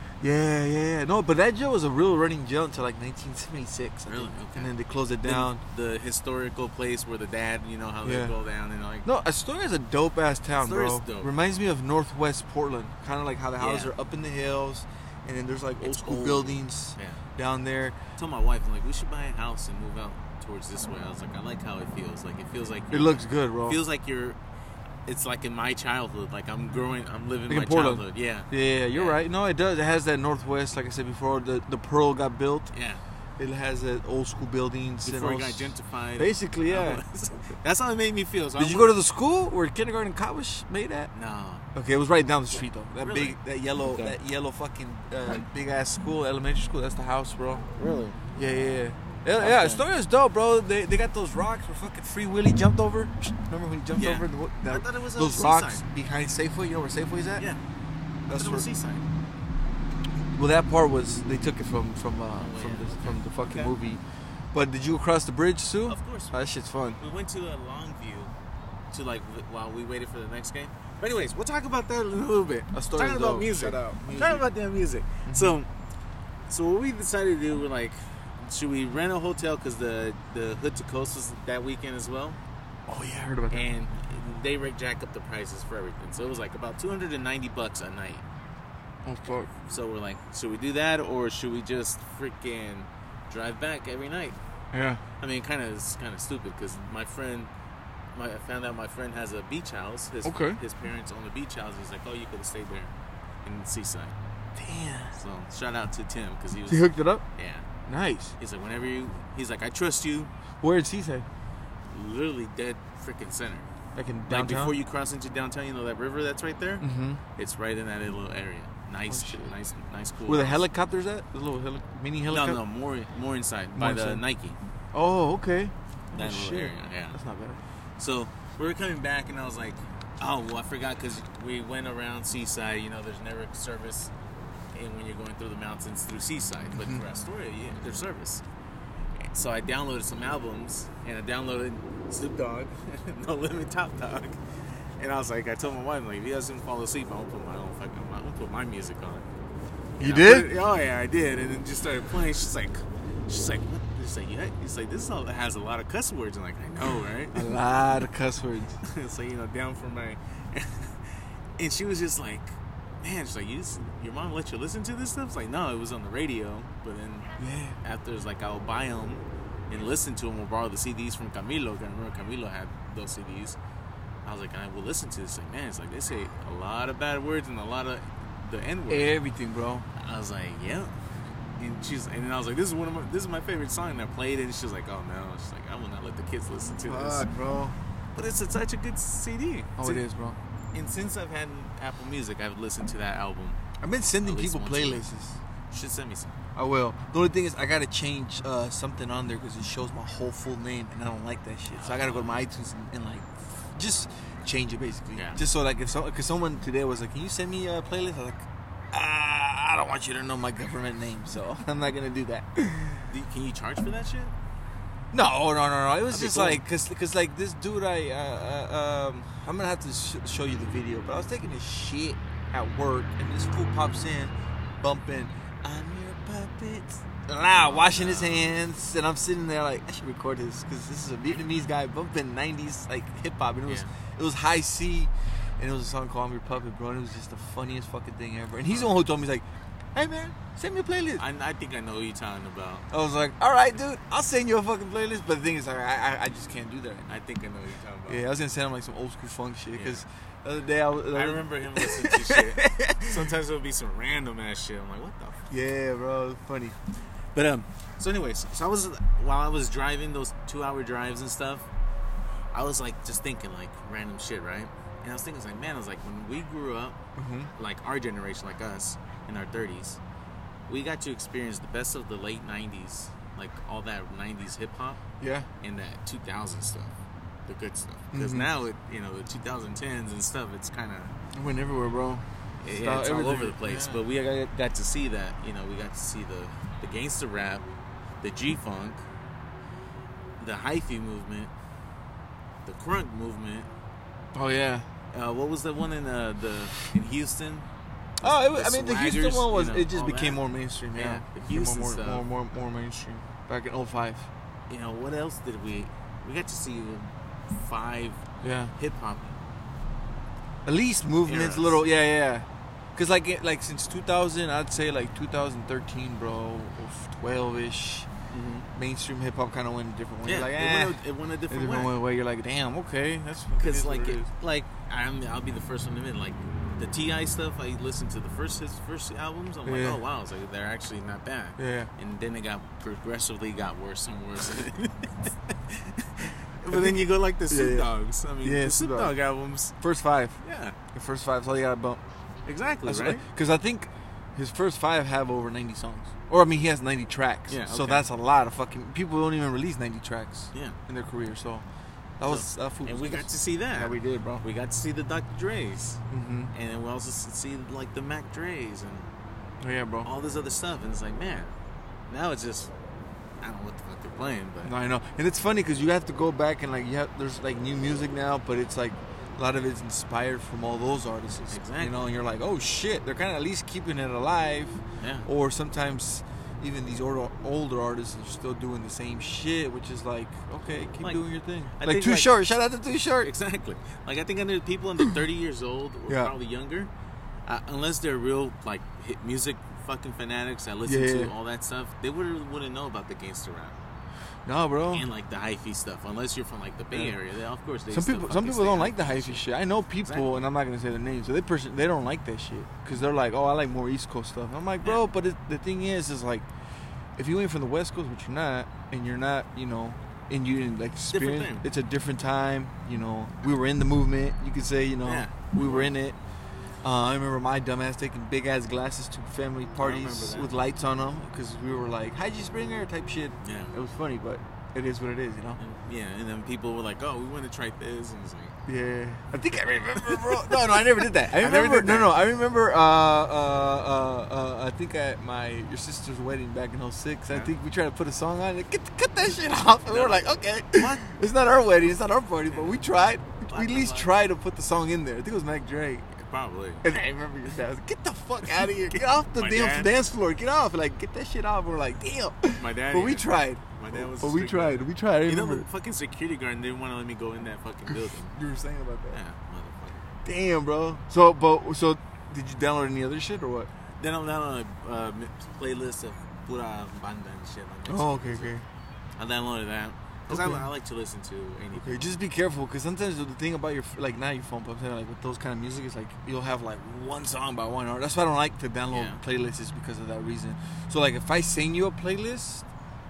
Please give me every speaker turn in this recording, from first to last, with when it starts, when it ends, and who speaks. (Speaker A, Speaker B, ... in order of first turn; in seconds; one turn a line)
Speaker A: 0.2-5.6
Speaker B: 4.1-4.7
Speaker B: 5.2-9.1
Speaker A: 8.0-8.3
Speaker A: 9.0-17.9
Speaker B: 10.5-11.3
Speaker B: 13.6-13.9
Speaker B: 15.8-17.2
Speaker B: 18.2-24.4
Speaker A: 22.9-23.8
Speaker B: 25.1-29.2
Speaker A: 27.5-32.7
Speaker B: 32.7-33.0
Speaker A: 33.4-37.0
Speaker B: 35.0-39.0
Speaker A: 38.6-41.1
Speaker B: 41.1-41.6
Speaker A: 41.7-47.6
Speaker B: 43.0-44.2
Speaker B: 47.7-48.2
Speaker A: 48.3-57.4
Speaker B: 49.4-49.8
Speaker B: 53.9-55.8
Speaker A: 58.3-58.6
Speaker B: 58.3-59.0
Speaker A: 60.1-64.0
Speaker B: 62.4-63.7
Speaker A: 64.5-67.0
Speaker B: 65.9-66.3
Speaker B: 67.0-68.3
Speaker B: 68.9-75.7
Speaker A: 72.7-74.5
Speaker A: 75.3-75.6
Speaker B: 76.5-82.4
Speaker A: 82.9-83.7
Speaker B: 83.5-88.2
Speaker A: 89.0-89.5
Speaker B: 89.6-94.3
Speaker A: 94.7-95.0
Speaker B: 95.2-97.5
Speaker B: 98.1-102.9
Speaker A: 100.2-100.6
Speaker B: 103.4-104.2
Speaker A: 104.5-105.2
Speaker B: 105.1-107.7
Speaker A: 106.7-107.2
Speaker A: 107.9-108.3
Speaker B: 108.4-110.3
Speaker A: 110.6-111.2
Speaker B: 111.9-113.7
Speaker A: 113.9-114.8
Speaker B: 114.3-116.8
Speaker A: 116.8-117.2
Speaker B: 117.4-120.6
Speaker A: 119.1-119.5
Speaker A: 120.3-122.6
Speaker B: 122.3-124.6
Speaker A: 123.7-124.2
Speaker A: 124.9-127.6
Speaker B: 126.1-127.2
Speaker B: 128.0-134.1
Speaker B: 134.7-138.4
Speaker A: 136.7-137.0
Speaker B: 139.3-144.4
Speaker B: 145.0-149.2
Speaker A: 150.0-150.5
Speaker B: 150.0-157.5
Speaker A: 157.3-158.8
Speaker B: 158.8-161.0
Speaker B: 161.6-167.3
Speaker A: 167.4-167.8
Speaker B: 167.8-173.6
Speaker B: 174.2-179.2
Speaker A: 178.9-179.8
Speaker B: 180.0-180.9
Speaker B: 181.6-187.2
Speaker A: 186.8-187.8
Speaker B: 188.1-190.0
Speaker A: 189.8-190.4
Speaker B: 190.7-193.6
Speaker A: 193.8-195.4
Speaker B: 194.2-195.0
Speaker B: 195.7-196.3
Speaker A: 196.5-213.1
Speaker B: 201.7-202.4
Speaker B: 205.1-205.4
Speaker B: 213.1-214.3
Speaker A: 215.1-241.2
Speaker B: 216.1-216.6
Speaker B: 227.5-228.5
Speaker B: 233.7-233.9
Speaker B: 238.7-238.9
Speaker B: 241.2-242.8
Speaker A: 242.9-247.1
Speaker B: 247.1-248.2
Speaker A: 248.1-253.2
Speaker B: 249.7-250.0
Speaker B: 251.1-255.5
Speaker A: 255.5-256.8
Speaker B: 257.3-261.6
Speaker B: 262.5-267.0
Speaker A: 267.1-267.5
Speaker B: 267.6-270.0
Speaker B: 270.7-275.0
Speaker A: 275.2-275.5
Speaker B: 275.6-276.9
Speaker B: 277.5-281.1
Speaker A: 278.1-278.5
Speaker A: 281.3-284.0
Speaker B: 282.6-287.6
Speaker B: 288.2-289.0
Speaker B: 290.4-291.5
Speaker B: 292.6-293.7
Speaker A: 294.3-294.9
Speaker B: 295.1-297.7
Speaker B: 298.2-300.4
Speaker A: 298.2-304.3
Speaker B: 300.9-302.3
Speaker B: 304.7-308.2
Speaker A: 308.4-308.7
Speaker B: 308.7-309.3
Speaker A: 310.6-318.1
Speaker B: 311.2-311.8
Speaker B: 318.3-318.7
Speaker A: 318.7-324.3
Speaker B: 320.2-321.9
Speaker B: 323.6-339.8
Speaker A: 329.6-330.0
Speaker A: 331.6-331.9
Speaker A: 336.7-339.1
Speaker A: 339.8-340.4
Speaker B: 340.4-340.8
Speaker A: 340.9-342.0
Speaker B: 342.4-343.2
Speaker A: 342.9-351.6
Speaker B: 347.5-348.1
Speaker A: 352.2-354.4
Speaker B: 352.2-356.0
Speaker A: 356.1-356.5
Speaker B: 356.5-359.1
Speaker A: 359.6-360.1
Speaker B: 360.0-361.5
Speaker B: 362.1-362.7
Speaker B: 363.4-364.7
Speaker A: 364.6-383.3
Speaker B: 371.5-372.1
Speaker B: 375.0-375.3
Speaker B: 381.8-382.3
Speaker B: 383.2-386.9
Speaker B: 387.4-393.8
Speaker A: 390.8-391.3
Speaker A: 394.4-395.1
Speaker B: 394.9-399.4
Speaker A: 397.9-406.4
Speaker B: 400.0-400.3
Speaker A: 407.1-416.2
Speaker B: 411.1-411.6
Speaker B: 415.0-415.9
Speaker A: 416.8-425.6
Speaker B: 419.8-420.5
Speaker B: 423.4-423.7
Speaker B: 425.6-428.6
Speaker A: 428.6-446.1
Speaker B: 429.9-432.1
Speaker B: 439.9-441.1
Speaker B: 442.5-442.8
Speaker B: 443.5-444.1
Speaker B: 446.1-446.9
Speaker A: 446.8-455.7
Speaker B: 448.9-449.9
Speaker B: 452.5-458.4
Speaker A: 457.9-459.2
Speaker B: 459.1-460.1
Speaker A: 460.2-463.7
Speaker B: 464.0-468.5
Speaker A: 467.9-468.6
Speaker B: 469.2-472.1
Speaker A: 470.3-470.7
Speaker A: 471.7-482.6
Speaker B: 478.9-479.2